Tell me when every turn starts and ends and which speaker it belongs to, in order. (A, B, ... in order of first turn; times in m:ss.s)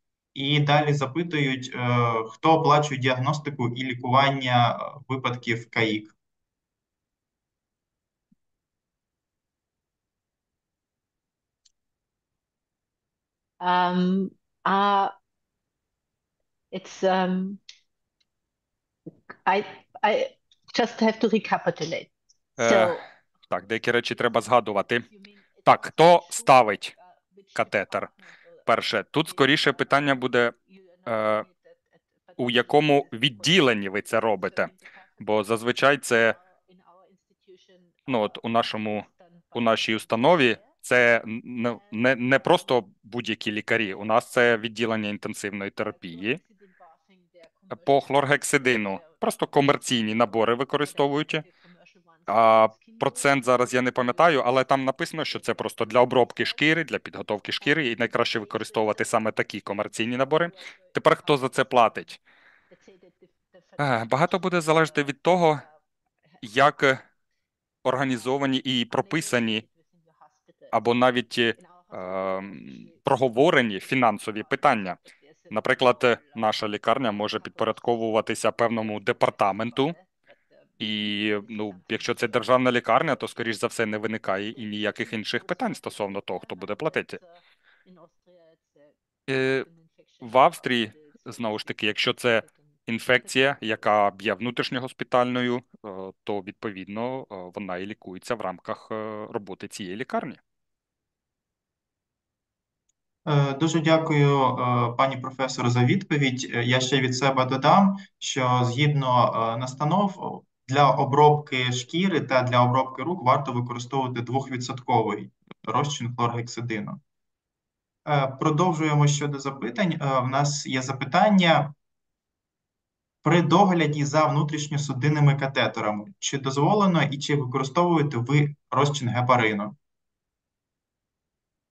0:00.3-0:06.1 A
0:13.6-0:15.1 B
0:16.7-0:17.6 B
0:19.4-0:23.0 B
0:22.6-0:23.0 C
0:23.5-0:25.1 C
0:25.1-0:26.5 B
0:25.6-0:26.9 C
0:27.3-0:27.8 B
0:27.5-0:28.1 C
0:28.6-0:30.5 C
0:29.4-0:29.8 B
0:31.1-0:31.4 C
0:32.4-0:36.4 C
0:34.4-0:34.7 B
0:36.4-0:38.1 B
0:38.1-0:46.4 C
0:46.1-0:47.8 B
0:47.7-0:51.4 C
0:50.9-0:54.5 B
0:52.3-1:02.2 C
0:55.3-0:56.5 B
0:57.6-0:59.1 B
0:59.8-1:02.0 B
1:02.7-1:05.1 B
1:03.8-1:05.6 C
1:06.4-1:07.0 C
1:07.8-1:09.6 C
1:09.2-1:10.7 B
1:10.7-1:15.0 C
1:11.6-1:12.9 B
1:15.5-1:16.6 B
1:15.5-1:20.0 C
1:19.1-1:20.0 B
1:20.8-1:27.2 C
1:21.5-1:22.3 B
1:24.7-1:28.9 B
1:29.3-1:29.7 C
1:29.7-1:32.5 B
1:30.2-1:40.4 C
1:43.2-1:57.0 A
1:58.0-2:01.7 A
2:03.2-2:09.8 A